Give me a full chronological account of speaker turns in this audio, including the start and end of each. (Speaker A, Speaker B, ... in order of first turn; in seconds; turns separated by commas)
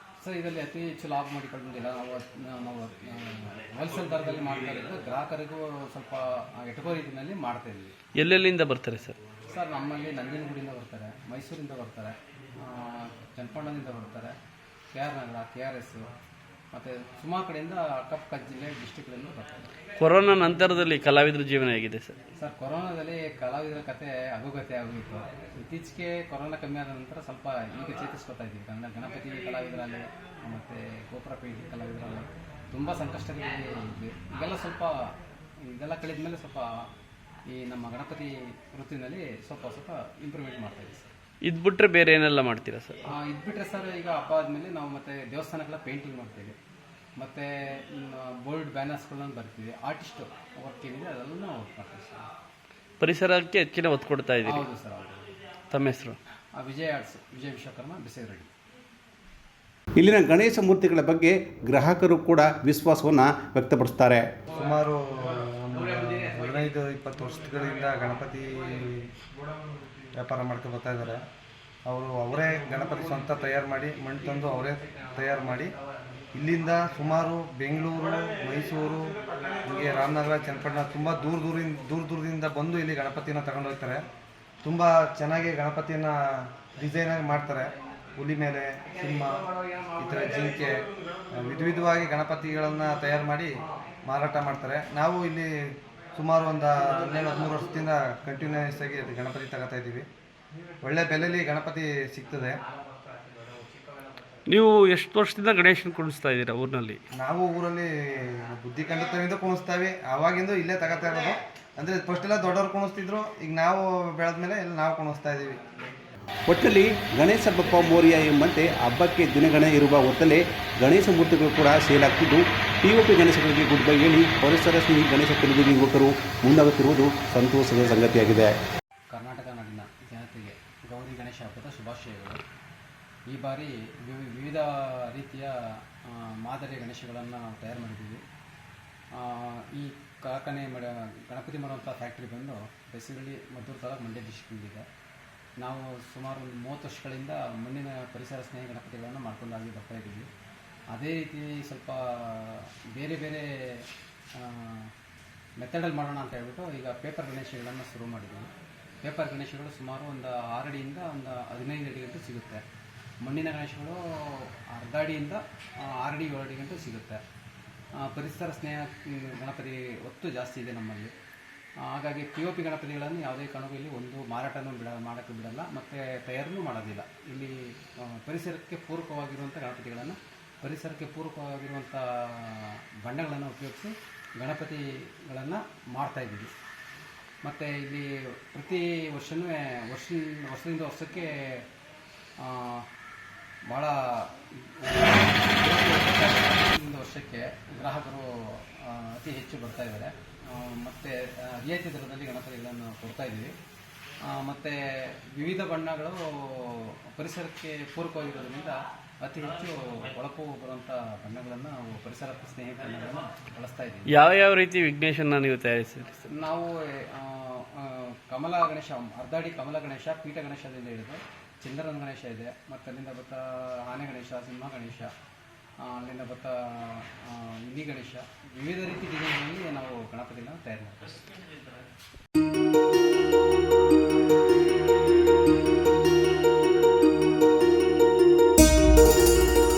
Speaker A: 0.2-8.0, Speaker B: 8.2-9.2, Speaker A: 9.4-14.4, Speaker A: 14.9-16.1, Speaker A: 16.7-19.7, Speaker B: 20.0-22.2, Speaker A: 22.4-36.9, Speaker A: 37.5-41.1, Speaker B: 41.4-43.0, Speaker A: 43.1-46.6, Speaker A: 47.2-52.3, Speaker B: 53.0-54.6, Speaker A: 54.5-55.3, Speaker B: 55.7-56.2, Speaker A: 56.6-58.5, Speaker C: 60.0-64.3, Speaker D: 64.5-69.1, Speaker D: 70.2-71.2, Speaker D: 71.9-75.7, Speaker D: 76.3-84.0, Speaker D: 84.6-93.5, Speaker D: 94.1-95.5, Speaker D: 96.2-100.1, Speaker D: 100.8-102.6, Speaker B: 104.5-107.0, Speaker D: 107.2-115.7, Speaker C: 116.5-128.5, Speaker A: 129.1-132.4, Speaker A: 133.3-138.2, Speaker A: 139.1-144.9, Speaker A: 145.6-150.3, Speaker A: 150.9-154.9, Speaker A: 155.6-158.5, Speaker A: 159.0-162.6, Speaker A: 163.2-167.2, Speaker A: 168.0-171.1, Speaker A: 171.8-186.5, Speaker A: 187.4-191.7, Speaker A: 192.4-192.9, Speaker A: 193.7-203.5, Speaker A: 204.3-214.1, Speaker B: 214.1-216.2, Speaker A: 216.3-225.1, Speaker A: 225.8-231.3